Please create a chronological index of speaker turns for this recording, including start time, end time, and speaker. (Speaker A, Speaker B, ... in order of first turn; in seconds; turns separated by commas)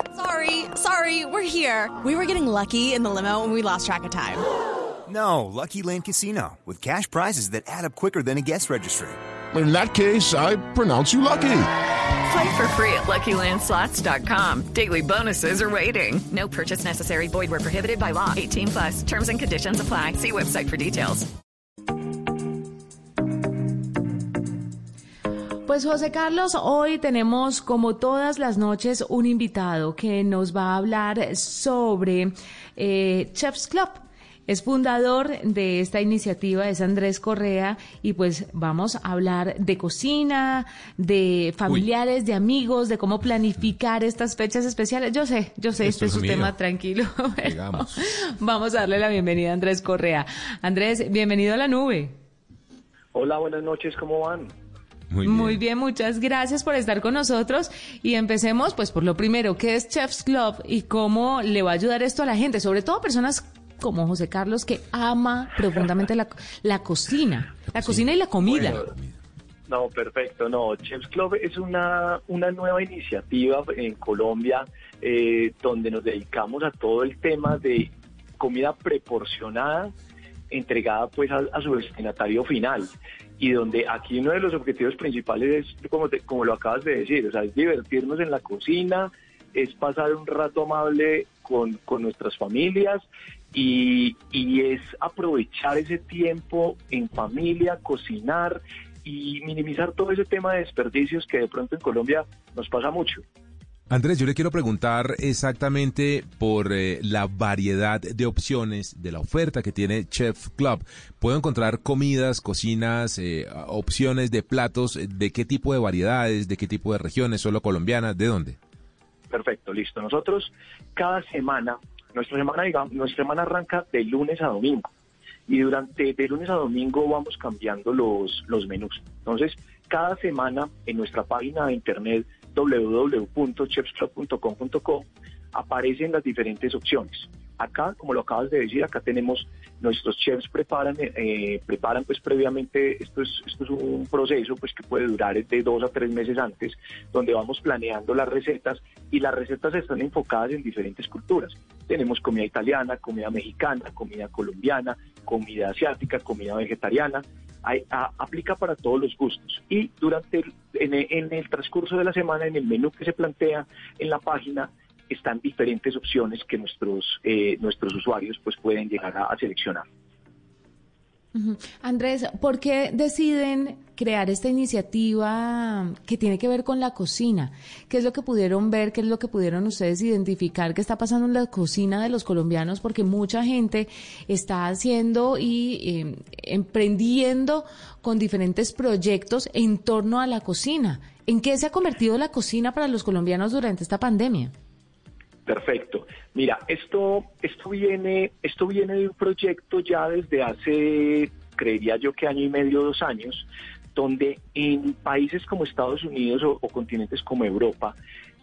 Speaker A: 0.1-4.4, Speaker B: 5.1-9.2, Speaker C: 9.5-11.7, Speaker D: 12.2-21.3, Speaker E: 25.6-52.1, Speaker F: 45.9-46.5, Speaker F: 47.5-47.9, Speaker G: 53.1-54.5, Speaker F: 55.1-55.6, Speaker E: 55.2-68.8, Speaker G: 68.5-68.9, Speaker G: 69.7-79.9, Speaker G: 80.5-103.2, Speaker F: 103.9-118.6, Speaker G: 119.3-124.9, Speaker G: 125.5-169.8, Speaker E: 171.3-194.5, Speaker G: 195.4-207.9